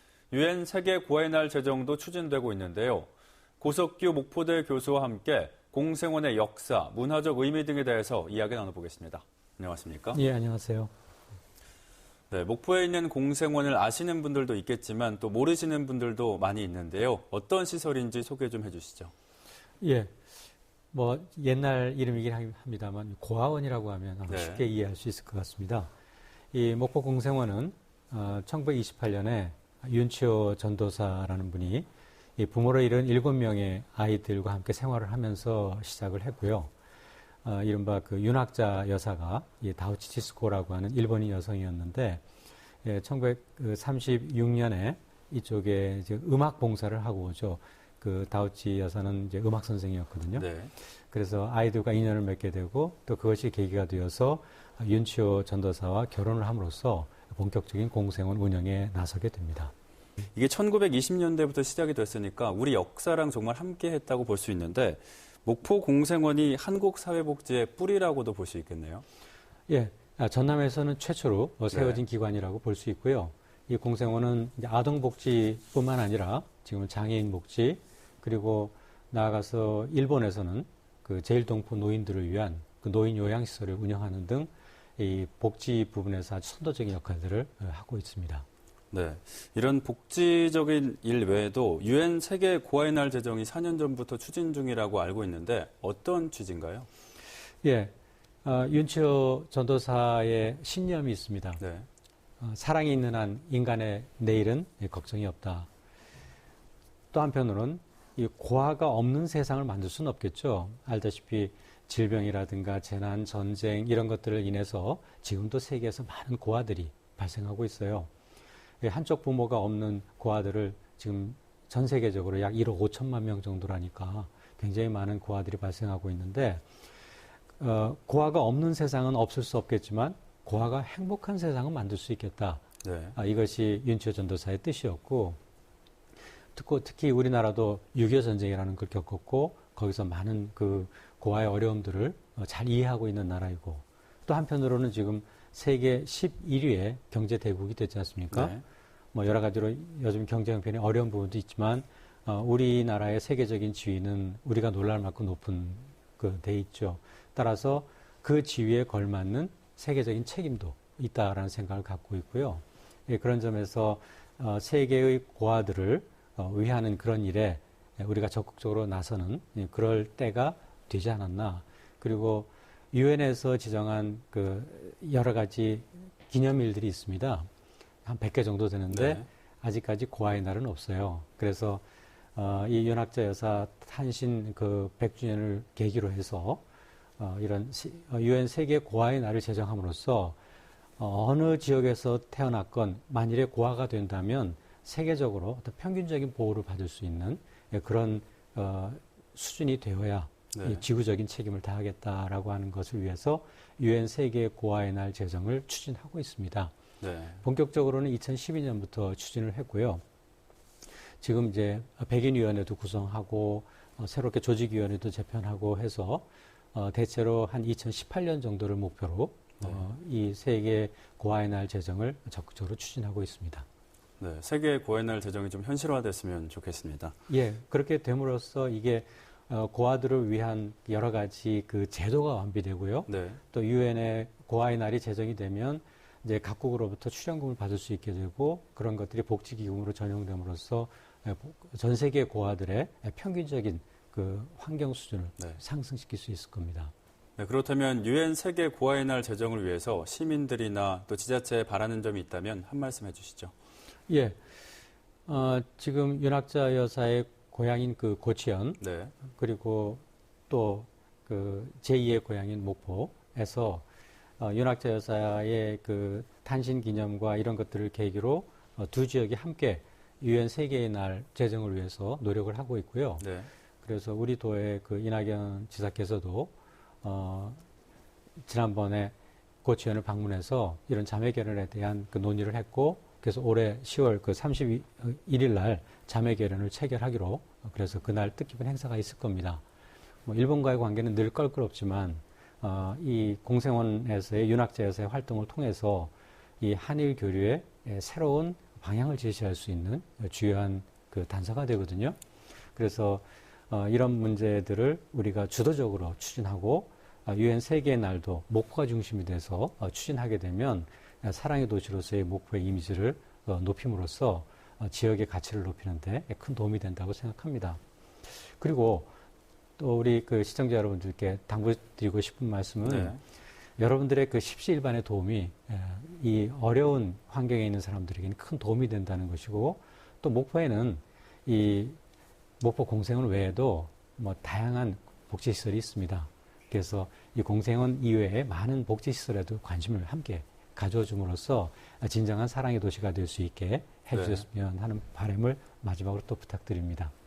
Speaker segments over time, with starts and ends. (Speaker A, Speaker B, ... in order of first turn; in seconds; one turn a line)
Speaker A: 0.3-3.1
Speaker A: 3.6-10.2
Speaker B: 10.1-10.9
Speaker A: 12.3-19.1
Speaker B: 19.8-20.1
Speaker B: 20.9-25.9
Speaker A: 24.3-24.6
Speaker B: 26.5-36.7
Speaker B: 37.4-42.2
Speaker B: 42.8-50.5
Speaker A: 50.4-50.7
Speaker B: 51.1-59.7
Speaker A: 60.4-69.0
Speaker B: 69.7-88.5
Speaker A: 71.7-72.0
Speaker A: 88.9-96.9
Speaker B: 97.6-97.9
Speaker B: 98.4-101.6
Speaker A: 101.6-101.9
Speaker B: 102.4-105.7
Speaker B: 107.1-118.1
Speaker B: 118.8-126.6
Speaker B: 127.6-132.6
Speaker A: 132.8-133.2
Speaker B: 133.1-135.4
Speaker B: 136.6-148.6
Speaker A: 148.3-148.6
Speaker B: 149.1-177.5
Speaker B: 178.1-181.8
Speaker A: 178.9-179.2
Speaker B: 182.3-186.6
Speaker B: 187.2-190.4
Speaker B: 191.0-206.7
Speaker A: 200.5-200.8
Speaker A: 207.0-207.4
Speaker B: 207.4-210.0
Speaker B: 211.2-223.7
Speaker A: 224.2-227.2
Speaker B: 227.3-246.9
Speaker A: 233.1-233.4
Speaker A: 247.4-253.5
Speaker B: 254.1-254.4
Speaker B: 255.3-263.9
Speaker A: 258.8-259.1
Speaker B: 264.4-273.3
Speaker A: 273.2-273.5
Speaker B: 273.8-276.5
Speaker B: 277.0-277.6
Speaker B: 278.5-289.6
Speaker B: 290.3-302.2
Speaker B: 302.8-317.8
Speaker B: 318.6-319.1
Speaker B: 319.8-323.2
Speaker A: 322.9-323.2
Speaker B: 323.8-332.0
Speaker B: 332.6-347.1
Speaker A: 344.1-344.4